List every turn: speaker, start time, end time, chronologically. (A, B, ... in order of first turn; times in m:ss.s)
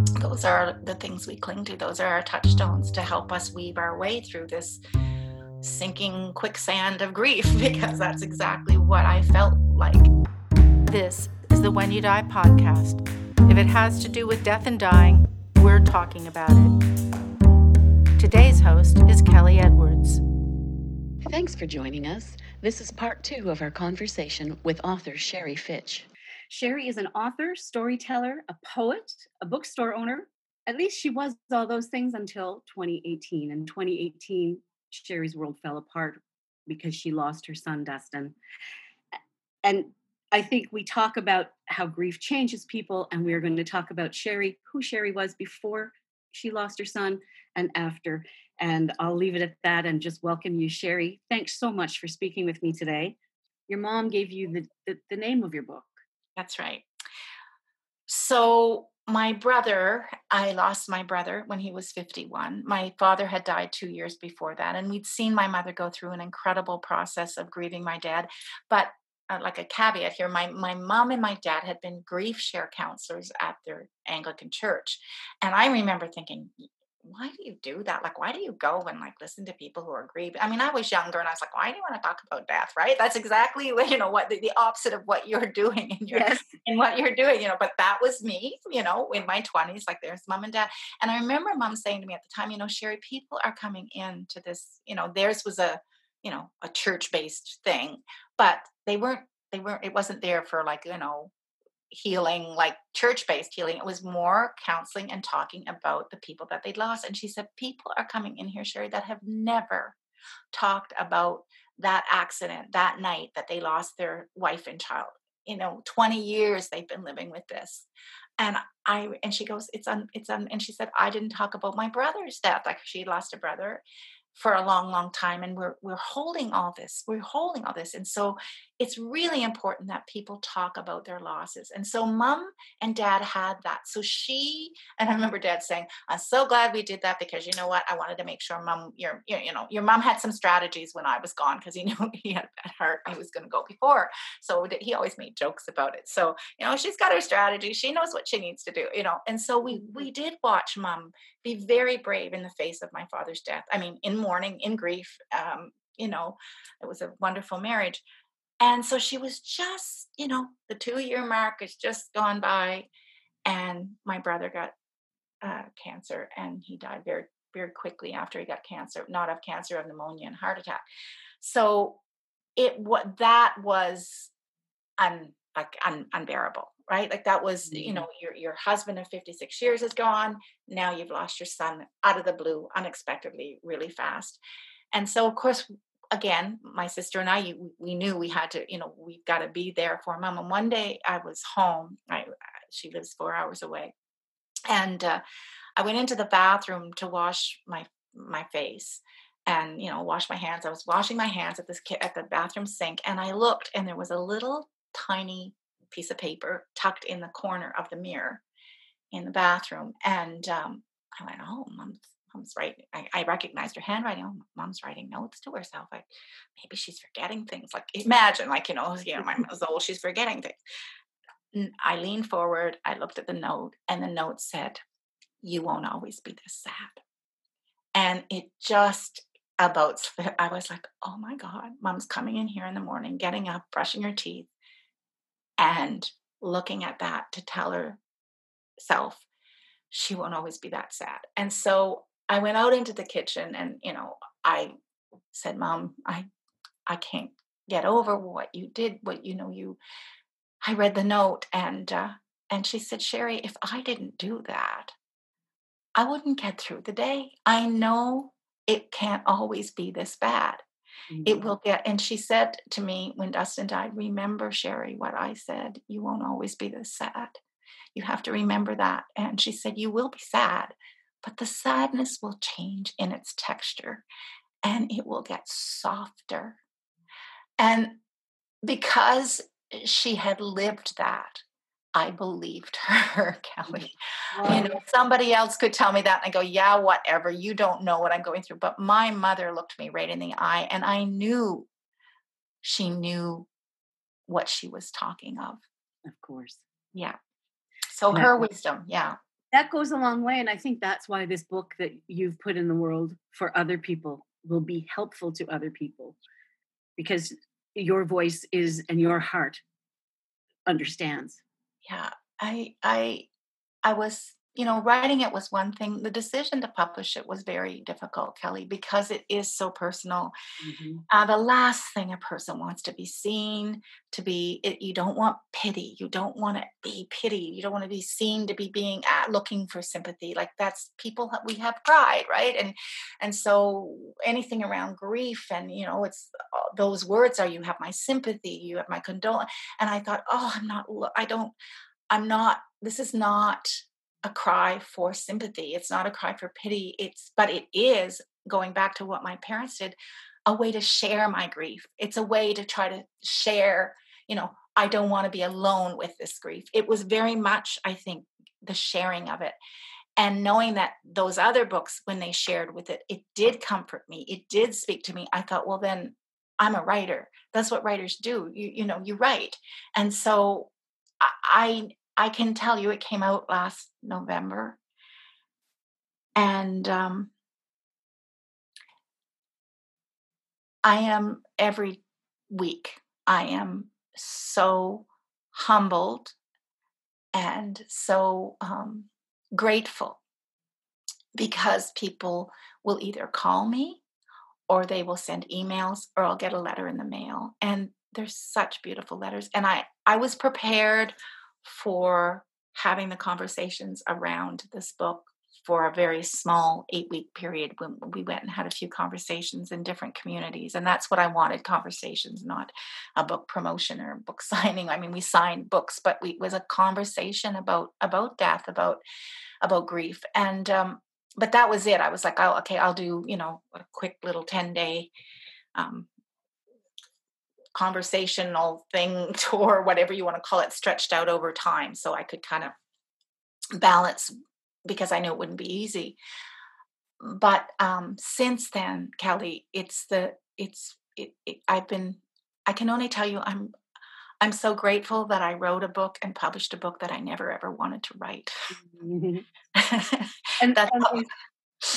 0:00.2-0:04.8 A
0:05.6-0:10.1 A
0:10.9-0:16.7 B
0:18.2-0:20.2 B
0:21.3-0:26.1 C
0:26.5-0:38.4 D
0:39.6-0:53.2 D
0:53.7-0:56.0 D
0:56.4-0:56.8 A
0:58.1-1:41.3 A
1:26.1-1:26.5 D
1:41.9-1:50.0 A
1:50.5-1:57.9 A
1:58.4-2:38.0 A
2:38.6-2:42.9 A
2:43.4-2:44.7 A
2:45.4-2:50.8 A
2:51.4-2:52.0 A
2:52.6-2:54.3 A
2:55.0-3:04.4 A
2:57.7-2:58.0 D
3:04.9-3:13.9 A
3:14.7-3:15.2 A
3:15.8-3:28.4 A
3:29.1-3:40.6 A
3:41.5-3:44.8 A
3:45.4-3:47.0 A
3:47.9-3:54.5 A
3:55.6-3:58.0 A
3:58.8-3:59.2 A
3:59.9-4:04.7 A
4:05.3-4:06.2 A
4:06.9-4:09.8 A
4:10.6-4:14.9 A
4:16.0-4:20.6 A
4:21.1-4:21.4 D
4:21.2-4:27.4 A
4:27.9-4:34.0 A
4:34.6-4:36.6 A
4:37.6-4:38.0 A
4:38.6-4:41.4 A
4:42.0-4:43.9 A
4:43.7-4:44.8 D
4:44.4-4:51.7 A
4:52.6-4:53.5 A
4:54.3-4:55.6 A
4:56.0-4:56.6 D
4:57.9-4:59.2 A
4:58.1-4:58.4 D
4:59.5-5:06.2 D
5:07.0-5:09.6 D
5:10.6-5:11.4 D
5:11.8-5:13.3 A
5:13.8-5:20.3 A
5:20.6-5:21.0 D
5:21.1-5:41.5 A
5:42.1-5:50.0 A
5:50.5-5:59.6 A
6:00.2-6:14.8 A
6:16.4-6:17.3 A
6:20.8-6:26.4 A
6:27.3-6:30.2 A
6:31.3-6:34.0 A
6:34.7-6:59.0 A
6:59.6-7:05.1 A
7:05.8-7:06.1 A
7:07.7-7:12.7 A
7:13.8-7:14.3 A
7:14.9-7:16.2 A
7:17.2-7:23.7 A
7:24.4-7:28.7 A
7:28.7-7:29.4 D
7:29.7-7:31.2 A
7:30.6-7:31.3 D